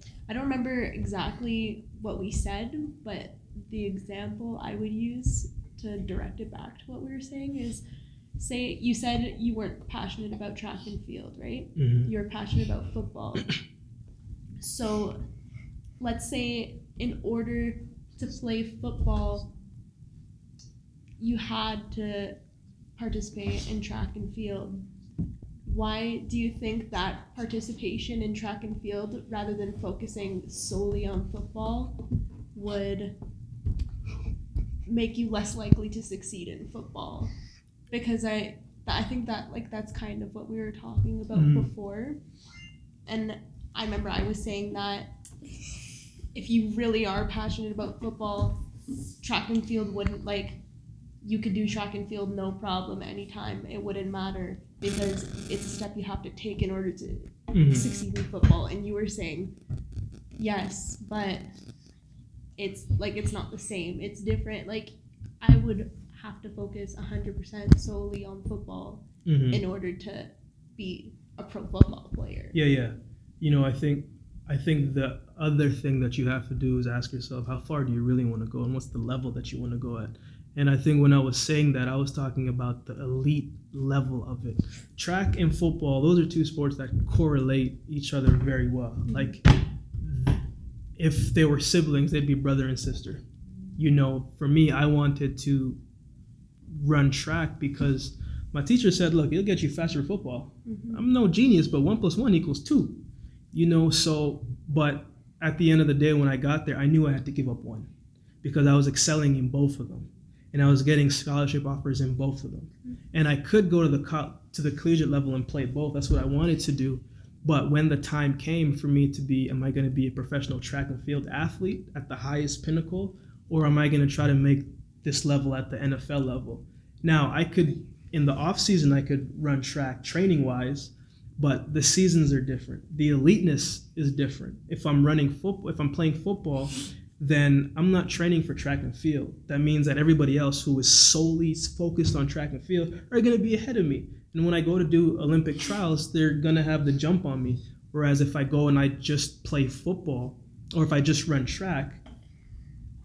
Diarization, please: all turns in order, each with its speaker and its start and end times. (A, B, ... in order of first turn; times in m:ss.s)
0:00.3-0:07.8 A
0:08.4-0:13.5 A
0:11.7-0:12.1 B
0:14.6-0:15.2 A
0:16.0-0:19.5 A
0:21.2-0:22.4 A
0:23.0-0:24.8 A
0:25.6-0:32.0 A
0:32.5-0:33.1 A
0:34.8-0:37.3 A
0:37.9-0:42.2 A
0:41.3-0:41.7 B
0:43.0-0:45.1 A
0:46.3-0:48.6 A
0:49.2-0:50.6 A
0:51.2-0:59.5 A
0:57.5-0:57.8 B
1:00.4-1:01.4 A
1:02.6-1:12.5 A
1:09.2-1:09.6 B
1:12.5-1:29.5 B
1:29.1-1:29.3 A
1:30.0-1:30.4 B
1:31.0-1:33.2 B
1:33.8-1:35.8 B
1:36.7-1:47.9 B
1:40.6-1:41.0 A
1:48.4-2:32.0 B